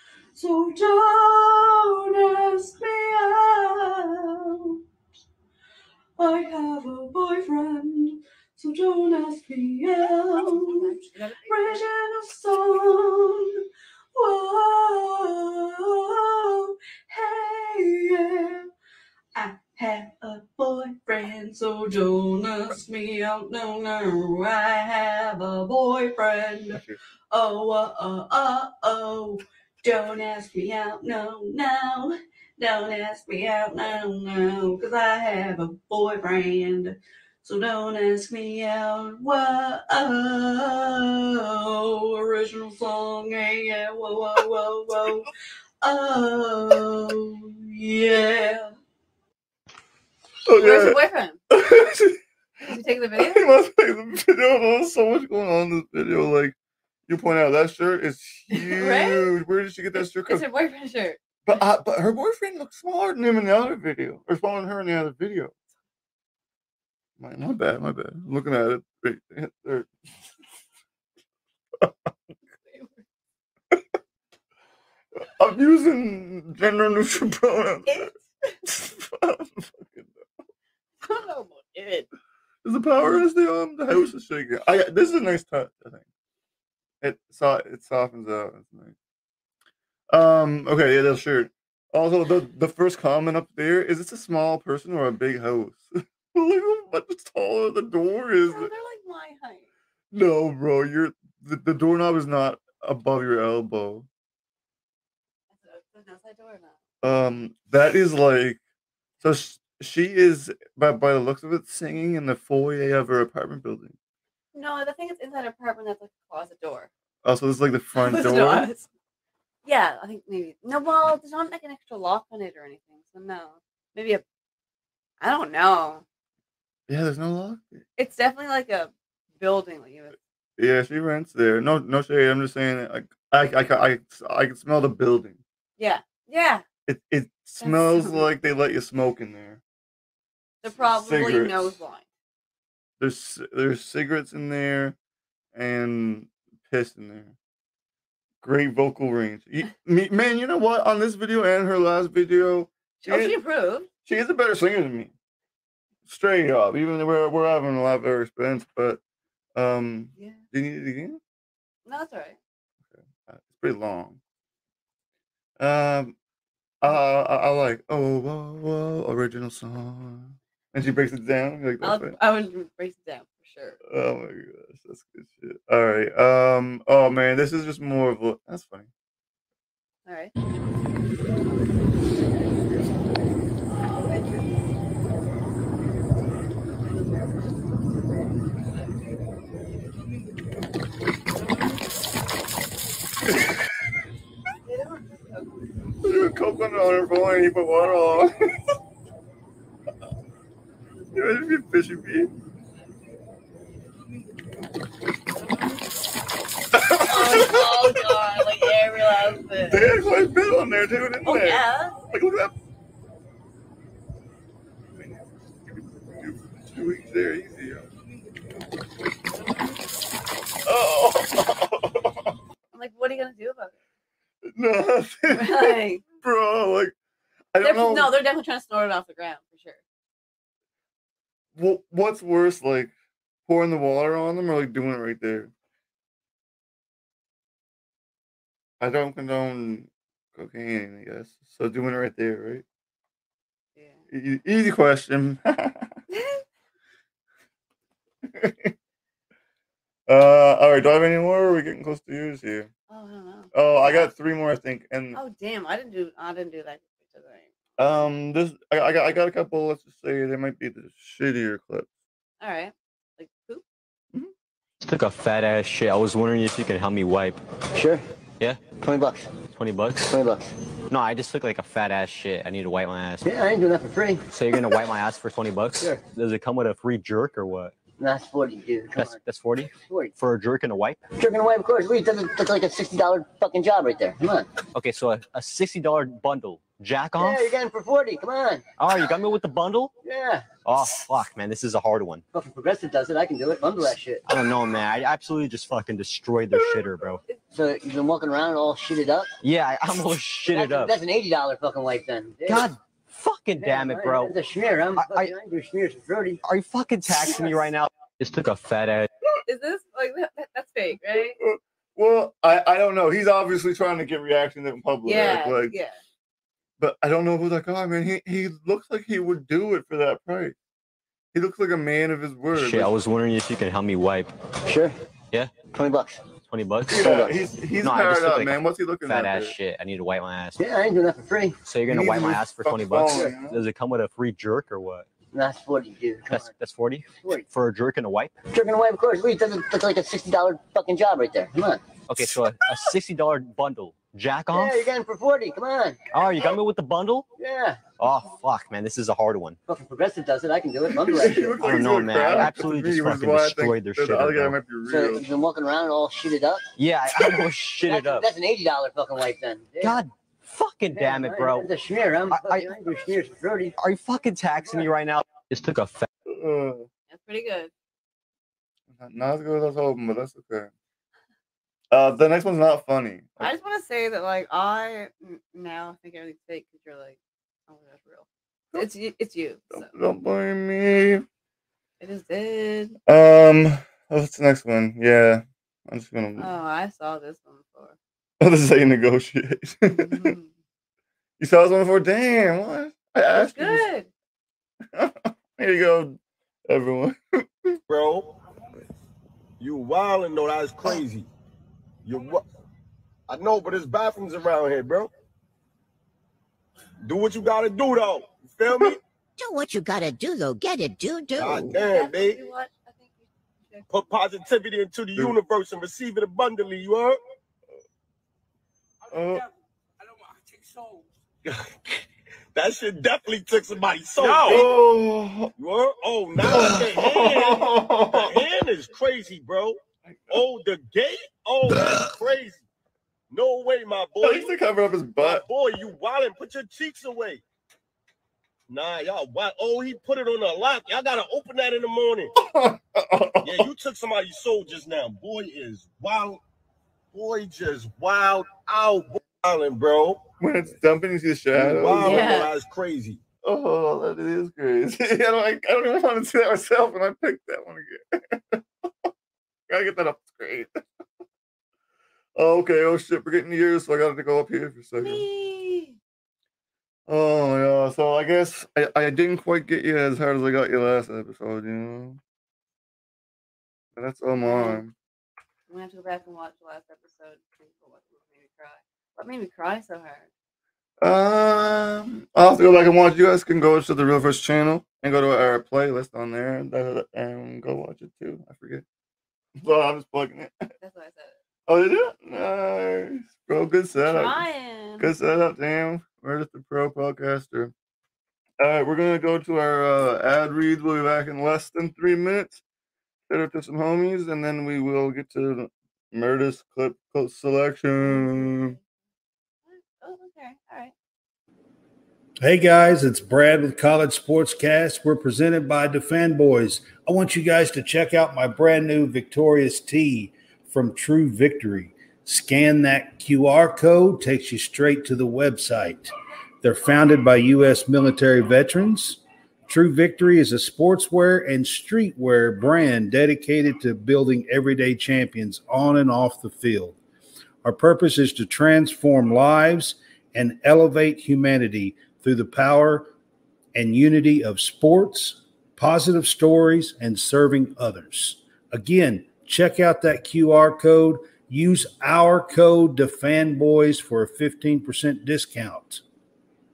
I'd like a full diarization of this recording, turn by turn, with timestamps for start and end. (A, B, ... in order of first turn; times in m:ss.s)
0:00.3-0:04.8 A
0:06.2-0:10.9 A
0:10.1-0:11.9 B
0:11.5-0:18.7 A
0:19.3-0:45.3 A
0:45.8-0:48.7 A
0:50.4-0:52.2 C
0:50.6-0:51.4 B
0:52.6-0:53.5 B
0:53.2-0:56.5 C
0:57.1-1:00.4 C
0:58.5-0:59.3 B
1:00.2-1:01.2 B
1:01.4-1:05.5 C
1:07.2-1:09.9 C
1:12.5-1:13.0 B
1:15.4-1:18.1 C
1:17.9-1:18.5 B
1:18.6-1:20.1 C
1:21.0-1:22.1 B
1:22.6-1:26.0 C
1:27.0-1:28.9 C
1:30.1-1:38.7 C
1:38.5-1:39.7 B
1:40.1-1:44.1 C
1:45.5-1:46.8 B
1:47.0-1:48.6 C
1:49.2-1:53.9 C
1:54.5-1:56.9 B
1:57.2-1:58.7 C
1:58.0-1:58.9 B
1:59.6-2:04.2 B
2:05.2-2:06.0 B
2:06.9-2:07.8 C
2:08.0-2:10.2 B
2:10.6-2:15.4 C
2:15.8-2:16.6 B
2:16.8-2:19.6 C
2:17.6-2:18.3 B
2:20.6-2:22.0 B
2:20.8-2:21.8 C
2:23.0-2:25.0 C
2:25.5-2:27.3 C
2:28.4-2:33.4 C
2:33.0-2:33.9 B
2:34.0-2:35.1 C
2:36.1-2:39.0 C
2:39.5-2:41.2 C
2:41.8-2:42.4 B
2:43.3-2:44.2 C
2:45.6-2:46.2 C
2:46.8-2:52.2 C
2:51.8-2:53.8 B
2:53.8-2:58.9 C
3:00.0-3:00.3 B
3:14.7-3:15.4 B
3:16.0-3:18.3 C
3:21.1-3:22.3 C
3:26.7-3:28.4 C
3:27.0-3:29.9 B
3:29.7-3:32.5 C
3:31.2-3:32.0 B
3:36.2-3:37.8 C
3:40.6-3:42.1 C
3:42.7-3:43.7 B
3:44.5-3:46.9 C
3:45.3-3:46.0 B
3:47.5-3:48.2 C
3:47.6-3:49.8 B
3:51.6-3:52.9 C
3:53.5-3:55.5 C
3:58.8-4:02.6 C
4:04.1-4:05.9 C
4:06.1-4:06.4 B
4:08.3-4:08.7 C
4:10.1-4:12.7 C
4:12.9-4:14.1 B
4:13.5-4:15.2 C
4:15.1-4:18.1 B
4:17.8-4:21.9 C
4:22.4-4:23.6 B
4:24.8-4:27.4 D
4:27.7-4:28.0 E
4:28.4-4:28.7 D
4:28.7-4:29.3 E
4:29.5-4:30.1 D
4:30.0-4:30.5 E
4:30.9-4:33.2 D
4:33.2-4:34.2 E
4:34.3-4:37.7 D
4:38.0-4:40.1 E
4:39.0-4:41.0 D
4:41.2-4:44.5 E
4:44.7-4:47.4 D
4:47.2-4:48.6 E
4:48.8-4:49.9 D
4:50.0-4:50.5 E
4:50.6-4:52.2 D
4:52.3-4:54.2 E
4:54.3-4:57.2 D
4:57.5-4:59.3 E
4:59.4-5:00.9 D
5:00.5-5:02.7 E
5:02.5-5:04.4 D
5:03.6-5:06.4 E
5:05.0-5:05.3 D
5:06.4-5:09.1 D
5:09.4-5:11.4 B
5:11.4-5:15.7 C
5:15.0-5:16.0 B
5:16.8-5:20.5 C
5:21.3-5:22.9 C
5:22.5-5:24.3 D
5:24.6-5:24.9 E
5:25.3-5:25.6 D
5:25.6-5:26.2 E
5:26.4-5:30.6 D
5:26.9-5:29.6 C
5:27.0-5:27.3 E
5:30.6-5:31.6 E
5:31.6-5:35.1 D
5:31.9-5:33.6 C
5:35.3-5:36.5 E
5:36.3-5:38.3 D
5:37.1-5:37.4 E
5:38.5-5:41.8 E
5:42.1-5:44.8 D
5:44.5-5:46.0 E
5:46.1-5:47.3 D
5:47.4-5:47.8 E
5:48.0-5:49.6 D
5:49.7-5:51.6 E
5:50.9-5:55.2 C
5:51.6-5:54.6 D
5:54.8-5:56.7 E
5:56.8-5:58.3 D
5:57.8-6:00.0 E
5:59.8-6:01.7 D
6:00.9-6:03.7 E
6:02.3-6:02.7 D
6:03.8-6:06.1 D
6:06.2-6:06.9 C
6:07.1-6:07.7 B
6:08.9-6:10.7 C
6:11.9-6:13.5 C
6:13.4-6:19.9 B
6:19.7-6:21.2 C
6:22.0-6:23.0 B
6:23.1-6:26.5 C
6:26.4-6:28.0 B
6:28.4-6:30.3 C
6:29.9-6:30.5 B
6:31.4-6:33.8 C
6:33.3-6:34.1 B
6:34.9-6:37.8 C
6:37.9-6:38.3 F
6:39.6-6:41.3 F
6:42.0-6:42.4 F
6:43.3-6:45.1 F
6:47.0-6:49.0 F
6:49.4-6:51.7 G
6:51.4-6:52.4 F
6:51.7-6:53.9 B
6:53.9-6:57.2 F
6:59.1-6:59.4 C
7:01.4-7:01.7 F
7:02.5-7:04.8 F
7:04.4-7:05.5 C
7:05.6-7:09.8 F
7:06.4-7:08.4 C
7:10.1-7:10.4 C
7:10.3-7:12.6 F
7:13.3-7:14.5 F
7:14.2-7:15.4 C
7:15.2-7:17.4 F
7:18.7-7:22.3 F
7:22.4-7:23.7 C
7:23.4-7:26.4 F
7:27.1-7:30.2 F
7:30.4-7:32.4 C
7:31.5-7:33.2 F
7:32.0-7:32.5 B
7:33.4-7:38.6 C
7:39.7-7:40.7 C
7:42.4-7:45.2 C
7:45.0-7:46.0 B
7:47.1-7:52.2 C
7:54.0-7:54.9 C
7:54.4-7:54.8 B
7:55.7-8:00.3 B
8:01.0-8:08.8 C
8:09.6-8:10.7 C
8:10.8-8:11.4 B
8:11.7-8:14.4 C
8:13.9-8:15.1 B
8:15.0-8:17.7 C
8:18.6-8:22.6 C
8:23.3-8:28.8 C
8:28.0-8:28.8 B
8:29.7-8:30.9 B
8:32.4-8:57.0 H
8:57.6-9:03.1 H
9:03.7-9:16.0 H